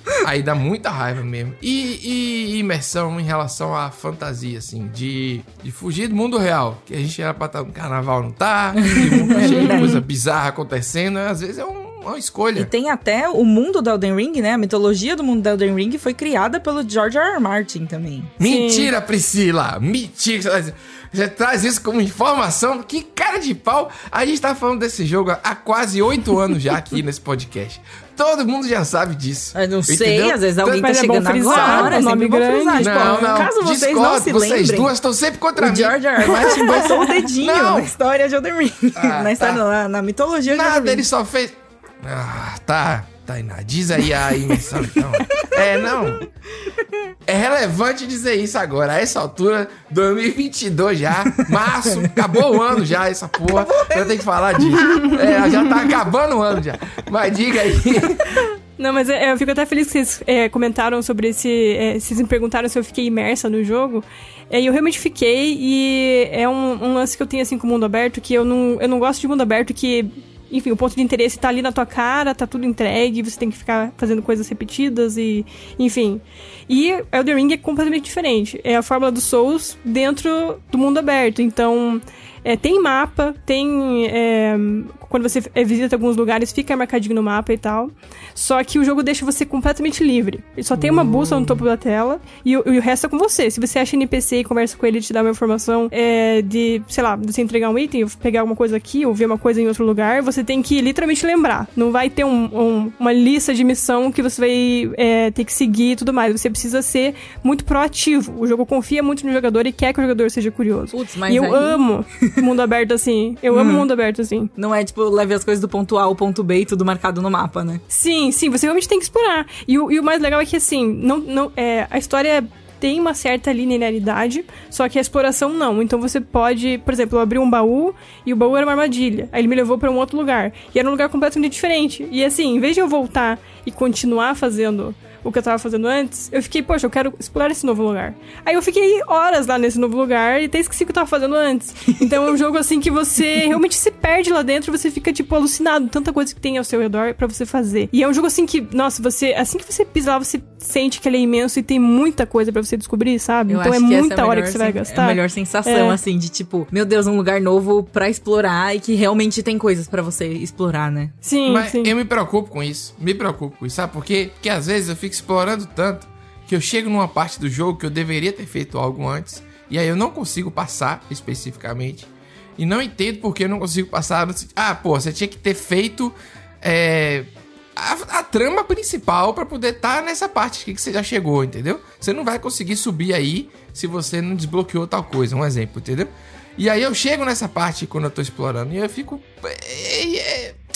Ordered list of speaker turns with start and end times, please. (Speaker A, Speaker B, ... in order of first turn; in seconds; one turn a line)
Speaker A: 0.2-12.7
Speaker B: 8.8-10.0
Speaker C: 9.4-9.8
Speaker B: 12.6-18.3
Speaker A: 18.4-30.8
Speaker C: 18.4-18.9
Speaker B: 29.5-34.9
Speaker C: 30.6-33.3
Speaker A: 31.4-32.0
Speaker A: 32.8-37.9
Speaker B: 35.5-41.0
Speaker C: 36.4-36.9
Speaker A: 38.9-39.6
Speaker A: 40.5-46.2
Speaker B: 44.7-46.1
Speaker A: 47.3-58.4
Speaker B: 53.4-55.5
Speaker C: 58.8-114.5
Speaker B: 90.7-91.7
Speaker B: 110.9-112.3
Speaker B: 113.5-113.9
Speaker B: 114.5-117.8
Speaker C: 117.9-156.0
Speaker B: 153.5-161.1
Speaker C: 161.2-161.9
Speaker A: 161.4-190.6